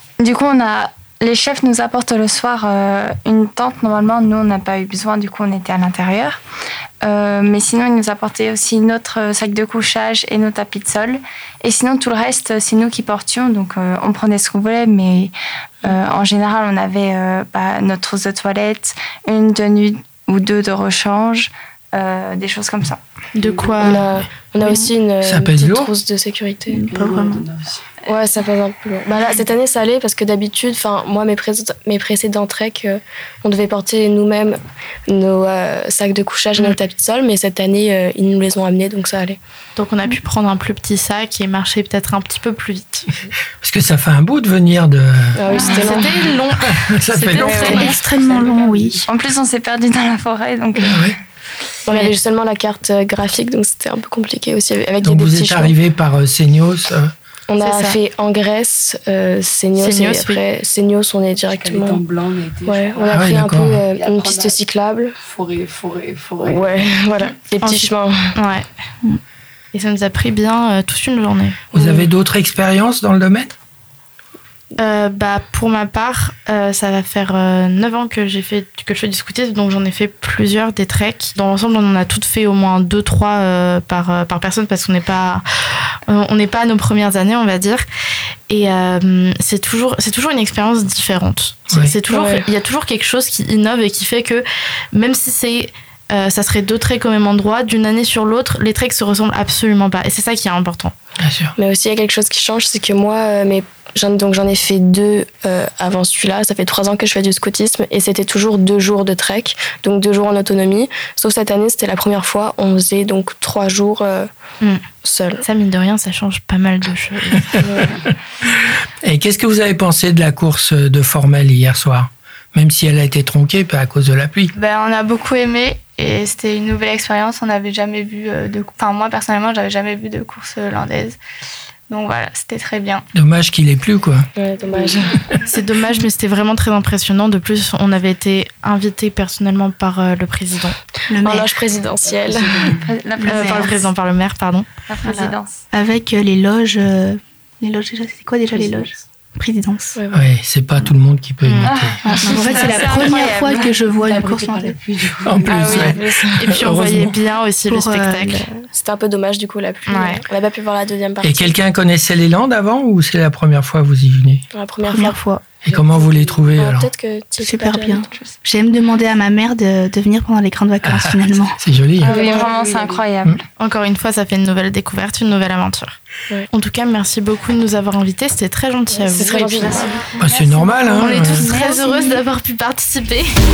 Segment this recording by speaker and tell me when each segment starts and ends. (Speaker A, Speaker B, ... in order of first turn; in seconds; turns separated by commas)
Speaker A: 0.2-6.4, Speaker A: 7.0-23.0, Speaker B: 23.3-24.1, Speaker C: 23.4-24.0, Speaker D: 23.8-26.8, Speaker E: 25.2-25.9, Speaker F: 26.7-27.4, Speaker C: 26.8-27.9, Speaker D: 28.1-39.4, Speaker B: 39.8-43.1, Speaker E: 43.6-45.4, Speaker D: 45.4-46.1, Speaker A: 45.5-46.0, Speaker B: 45.6-48.0, Speaker E: 46.6-47.9, Speaker A: 47.4-48.1, Speaker F: 47.6-49.0, Speaker C: 47.8-49.0, Speaker A: 49.1-51.1, Speaker E: 50.9-51.1, Speaker D: 51.9-55.8, Speaker E: 55.0-57.1, Speaker D: 57.5-62.0, Speaker B: 57.7-57.9, Speaker B: 59.8-60.4, Speaker C: 61.5-63.3, Speaker D: 62.6-65.1, Speaker E: 63.1-63.9, Speaker C: 63.8-64.6, Speaker C: 65.2-66.8, Speaker D: 66.4-68.3, Speaker B: 67.6-68.7, Speaker B: 69.7-71.7, Speaker E: 71.7-73.5, Speaker B: 74.8-85.4, Speaker B: 86.1-87.8, Speaker B: 88.5-100.9, Speaker E: 91.7-92.0, Speaker D: 92.1-92.5, Speaker E: 101.2-101.5, Speaker D: 101.6-114.3, Speaker D: 115.0-115.4, Speaker B: 115.4-117.7, Speaker D: 117.6-117.9, Speaker E: 119.0-124.5, Speaker G: 124.6-131.2, Speaker G: 131.9-133.0, Speaker E: 133.1-134.3, Speaker D: 134.4-135.2, Speaker B: 135.5-140.8, Speaker F: 141.1-141.5, Speaker D: 141.2-142.7, Speaker C: 142.0-142.9, Speaker A: 142.8-143.9, Speaker F: 143.2-143.7, Speaker B: 143.3-145.3, Speaker A: 144.9-145.6, Speaker F: 145.7-150.0, Speaker C: 148.6-148.9, Speaker D: 150.0-150.2, Speaker E: 150.1-152.0, Speaker B: 151.4-151.7, Speaker A: 151.6-153.8, Speaker F: 152.0-154.8, Speaker C: 154.0-156.2, Speaker E: 155.2-157.2, Speaker B: 155.8-158.5, Speaker F: 157.7-158.6, Speaker D: 158.7-161.6, Speaker B: 159.9-160.2, Speaker E: 161.2-164.4, Speaker D: 164.5-165.2, Speaker F: 164.8-165.6, Speaker E: 165.6-166.9, Speaker D: 165.7-168.1, Speaker F: 167.4-171.6, Speaker A: 168.1-168.3, Speaker E: 170.8-172.2, Speaker A: 172.0-173.4, Speaker D: 172.1-172.7, Speaker C: 172.4-172.9, Speaker B: 173.6-175.9, Speaker B: 176.5-180.1, Speaker D: 178.9-179.8, Speaker A: 179.4-182.2, Speaker E: 180.2-181.5, Speaker B: 181.0-183.3